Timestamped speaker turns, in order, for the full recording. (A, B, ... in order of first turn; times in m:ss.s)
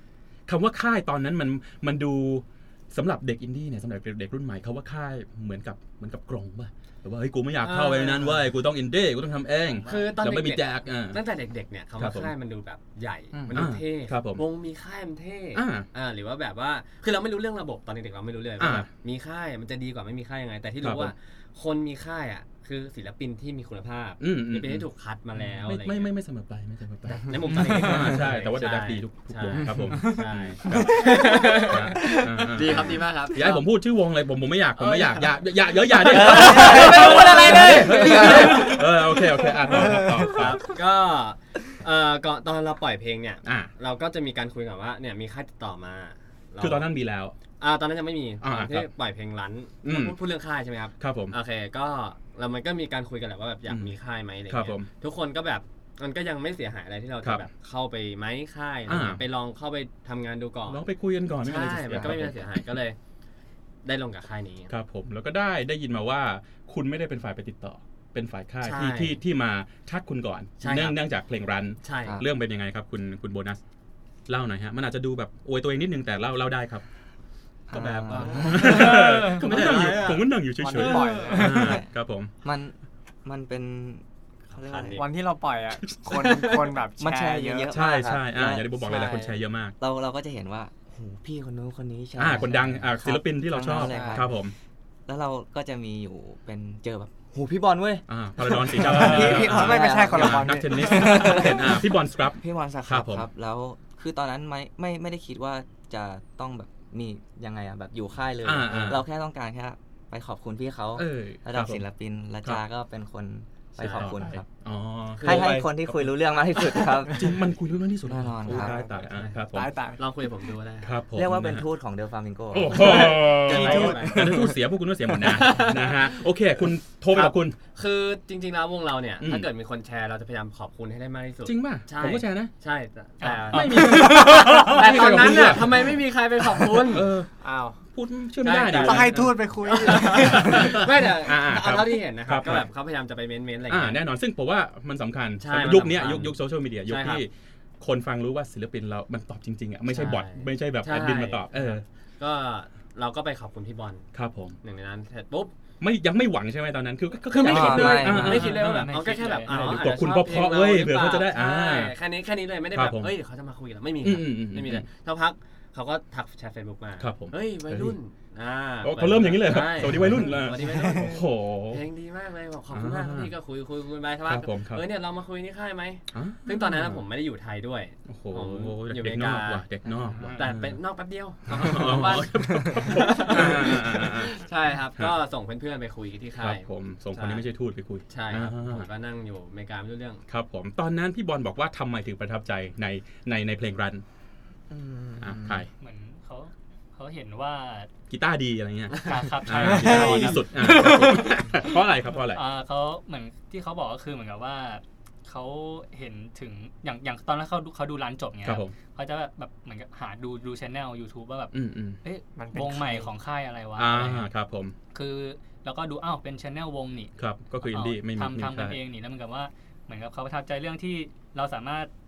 0:00.5-0:11.2 A
0:07.6-0:08.5 B
0:09.9-0:26.1 B
0:12.0-0:12.3 A
0:13.4-0:14.4 A
0:15.6-0:15.9 A
0:18.6-0:18.9 A
0:20.8-0:21.1 A
0:24.2-0:24.9 A
0:25.4-0:40.8 A
0:27.1-0:33.6 B
0:30.7-0:32.2 C
0:34.8-0:38.9 B
0:36.3-0:40.5 C
0:40.2-0:46.9 B
0:43.4-0:43.7 A
0:46.6-0:47.4 A
0:47.6-1:00.8 B
0:48.4-0:48.9 A
0:49.8-0:50.2 A
0:51.0-0:51.4 A
0:53.7-0:53.9 A
0:54.5-0:54.9 A
0:58.9-0:59.2 A
1:00.7-1:02.6 A
1:01.4-1:03.0 B
1:03.8-1:04.7 B
1:04.7-1:13.6 A
1:08.6-1:09.2 B
1:10.6-1:11.0 B
1:11.8-1:12.2 B
1:14.3-1:16.8 A
1:17.7-1:18.9 D
1:17.7-1:21.6 B
1:18.1-1:22.3 A
1:18.9-1:21.8 C
1:21.3-1:21.9 D
1:22.4-1:25.0 D
1:24.5-1:25.1 B
1:25.0-1:27.8 C
1:26.1-1:26.8 B
1:27.0-1:29.1 D
1:27.7-1:29.8 A
1:28.8-1:29.4 C
1:28.9-1:29.2 B
1:29.8-1:34.4 D
1:32.2-1:34.5 A
1:33.7-1:34.3 C
1:35.1-1:41.8 D
1:38.1-1:43.3 A
1:38.8-1:41.6 C
1:42.4-1:54.5 D
1:48.4-1:49.0 A
1:51.0-1:51.8 A
1:53.8-1:54.1 B
1:53.8-1:55.9 A
1:55.2-1:55.6 B
1:55.2-1:57.4 D
1:57.1-1:59.7 A
1:58.0-1:58.8 D
1:58.6-1:58.9 C
1:59.0-1:59.4 B
1:59.5-2:00.0 C
2:00.0-2:01.0 B
2:00.8-2:01.6 A
2:01.1-2:03.3 D
2:02.5-2:07.6 A
2:02.7-2:04.6 C
2:02.8-2:04.3 B
2:05.2-2:06.1 B
2:07.1-2:17.1 B
2:09.2-2:09.5 A
2:11.4-2:12.5 A
2:13.2-2:14.4 E
2:13.5-2:16.0 A
2:13.8-2:14.7 C
2:16.9-2:17.3 A
2:17.4-2:17.8 C
2:17.9-2:19.2 A
2:18.4-2:24.0 B
2:18.8-2:20.8 C
2:20.2-2:22.7 A
2:23.7-2:31.8 A
2:25.4-2:27.2 B
2:29.9-2:34.1 B
2:34.1-2:34.6 A
2:34.6-2:35.5 B
2:35.8-2:38.9 A
2:37.3-2:51.2 B
2:37.4-2:38.4 D
2:38.0-2:39.9 E
2:39.5-2:42.0 A
2:42.7-2:43.1 A
2:44.0-2:44.9 A
2:47.0-2:48.0 A
2:48.8-2:51.8 A
2:50.0-2:51.2 C
2:51.7-2:59.6 B
2:52.7-2:53.3 A
2:54.3-2:54.8 A
2:56.1-2:57.0 A
2:58.1-3:00.8 A
3:00.2-3:07.5 B
3:01.5-3:04.4 A
3:06.4-3:08.9 A
3:08.1-3:10.2 B
3:10.3-3:14.0 A
3:14.7-3:15.6 D
3:15.2-3:15.7 A
3:15.8-3:17.9 E
3:18.1-3:22.4 A
3:19.0-3:21.2 E
3:19.6-3:21.4 C
3:22.3-3:34.3 E
3:28.4-3:28.7 A
3:31.5-3:32.0 A
3:32.4-3:33.1 C
3:33.8-3:34.8 A
3:34.9-3:41.9 E
3:37.2-3:38.8 A